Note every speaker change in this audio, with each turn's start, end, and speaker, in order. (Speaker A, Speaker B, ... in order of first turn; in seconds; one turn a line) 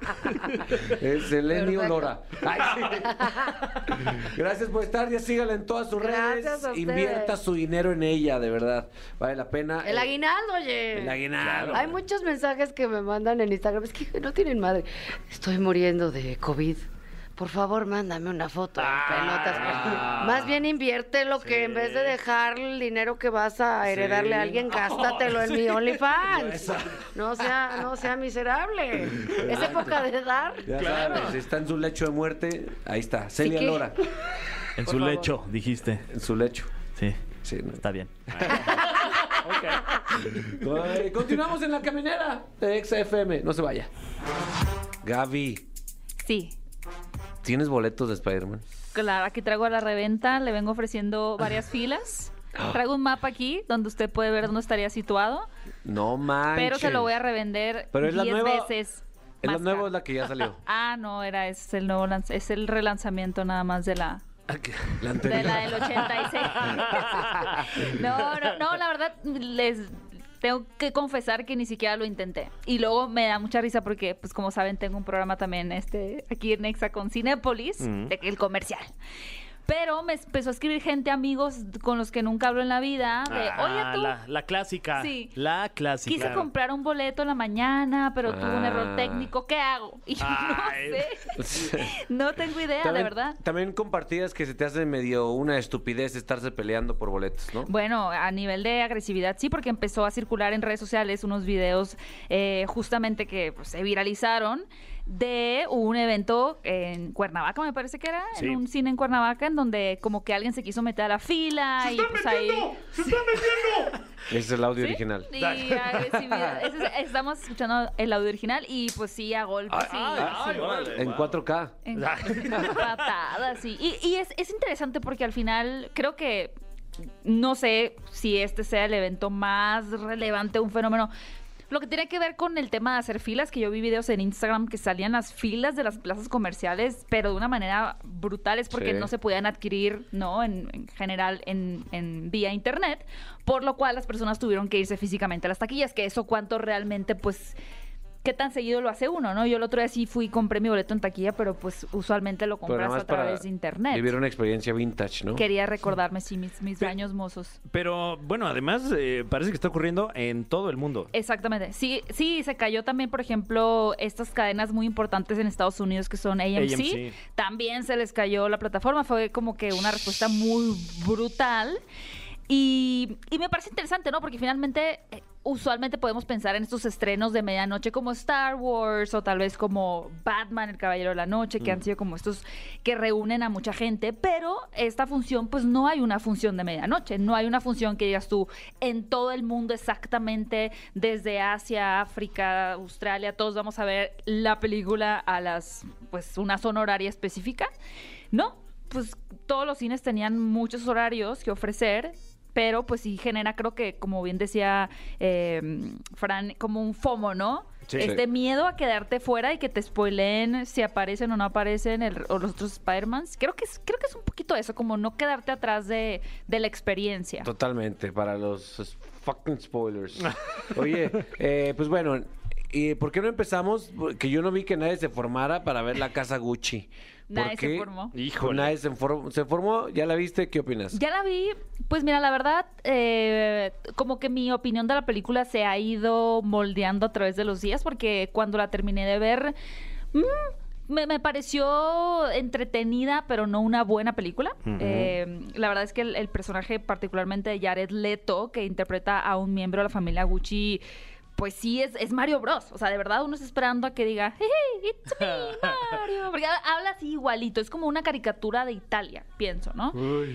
Speaker A: 0.8-10.1
Speaker B: 1.5-2.1
Speaker B: 3.0-3.7
Speaker B: 6.0-7.4
Speaker B: 9.8-11.2
Speaker A: 10.9-12.0
Speaker C: 11.4-11.8
Speaker D: 11.5-11.7
Speaker B: 11.7-30.7
Speaker C: 18.8-20.4
Speaker A: 19.2-20.5
Speaker D: 21.4-22.2
Speaker A: 23.8-24.7
Speaker C: 24.9-25.7
Speaker A: 26.2-27.1
Speaker A: 29.2-30.0
Speaker A: 30.6-34.1
Speaker C: 30.7-31.4
Speaker D: 30.9-31.1
Speaker B: 33.4-33.9
Speaker D: 34.8-36.1
Speaker A: 36.1-36.7
Speaker A: 37.4-39.3
Speaker D: 37.8-38.1
Speaker C: 38.4-38.7
Speaker C: 39.4-40.5
Speaker A: 40.3-43.9
Speaker A: 45.0-45.6
Speaker E: 46.2-46.5
Speaker A: 47.4-48.6
Speaker E: 48.9-55.5
Speaker A: 52.5-52.8
Speaker A: 55.9-57.1
Speaker E: 56.5-59.9
Speaker A: 57.9-58.7
Speaker A: 59.4-60.6
Speaker E: 60.6-64.2
Speaker C: 64.5-65.0
Speaker A: 65.0-66.0
Speaker E: 65.2-78.9
Speaker A: 66.7-67.8
Speaker C: 77.8-78.1
Speaker E: 79.7-84.2
Speaker D: 83.3-86.5
Speaker E: 85.0-85.3
Speaker E: 86.0-93.4
Speaker C: 86.2-86.5
Speaker A: 88.2-89.3
Speaker D: 90.2-91.0
Speaker C: 90.4-90.7
Speaker A: 91.4-91.9
Speaker A: 92.8-97.7
Speaker E: 97.7-113.5
Speaker C: 108.4-108.6
Speaker C: 111.8-114.0
Speaker A: 114.3-115.3
Speaker E: 114.8-120.7
Speaker C: 115.4-116.2
Speaker A: 119.7-121.8
Speaker C: 119.8-121.2
Speaker D: 119.8-121.3
Speaker E: 121.9-126.5
Speaker D: 122.0-122.9
Speaker C: 122.3-122.7
Speaker E: 127.2-131.1
Speaker E: 131.7-147.6
Speaker A: 138.7-139.1
Speaker E: 148.2-154.2
Speaker A: 152.7-155.4
Speaker E: 155.3-157.6
Speaker C: 157.7-161.1
Speaker E: 161.1-171.8
Speaker C: 166.6-167.2
Speaker E: 172.5-197.7
Speaker E: 198.3-217.5
Speaker C: 207.9-208.2
Speaker A: 208.0-208.2
Speaker A: 217.4-231.0
Speaker E: 227.3-228.1
Speaker C: 228.1-228.7
Speaker E: 230.9-239.6
Speaker E: 240.1-250.8
Speaker C: 244.7-245.2
Speaker E: 251.4-260.0